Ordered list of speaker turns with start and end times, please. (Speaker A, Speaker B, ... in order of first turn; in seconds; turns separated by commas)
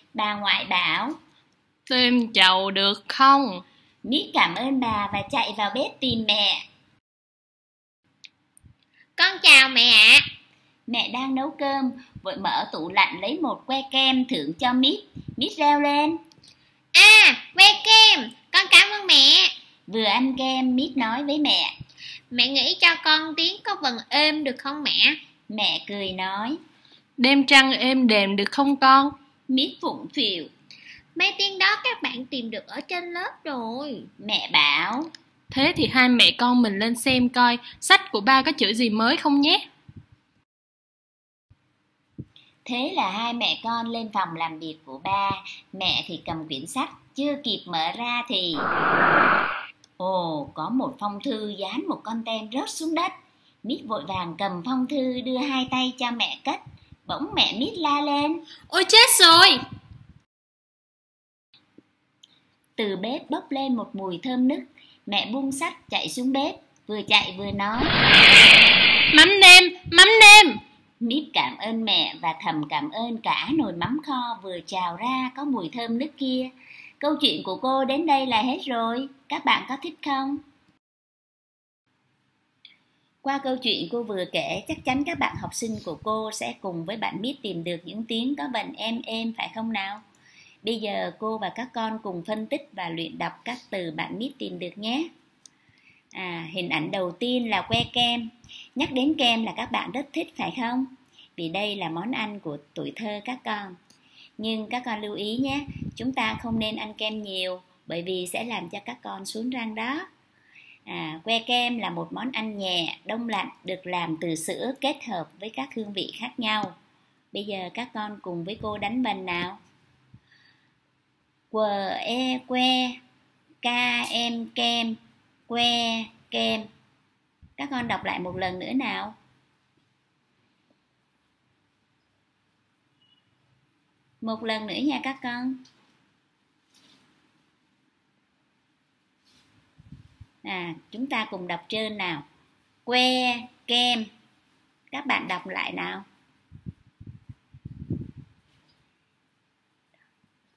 Speaker A: 0.1-1.1, Speaker B: 1.9-3.6, Speaker A: 4.0-6.6, Speaker C: 9.2-10.2, Speaker A: 10.9-16.2, Speaker C: 16.9-19.5, Speaker A: 19.9-21.7, Speaker C: 22.3-25.2, Speaker A: 25.5-26.6, Speaker B: 27.2-29.1, Speaker A: 29.5-30.5, Speaker C: 31.1-34.1, Speaker A: 34.2-35.1, Speaker B: 35.5-39.6, Speaker A: 42.6-48.7, Speaker A: 50.0-53.1, Speaker A: 53.6-58.5, Speaker B: 58.7-59.6, Speaker A: 62.8-67.9, Speaker B: 69.1-70.6, Speaker A: 71.0-80.4, Speaker A: 83.2-90.0, Speaker A: 90.6-95.1, Speaker A: 96.1-103.8, Speaker A: 104.4-110.0, Speaker A: 110.8-116.8, Speaker A: 117.3-119.6, Speaker A: 121.5-123.0, Speaker A: 123.6-126.7, Speaker A: 127.6-129.2, Speaker A: 134.2-135.6, Speaker A: 140.4-142.2, Speaker A: 142.8-144.1, Speaker A: 144.9-146.1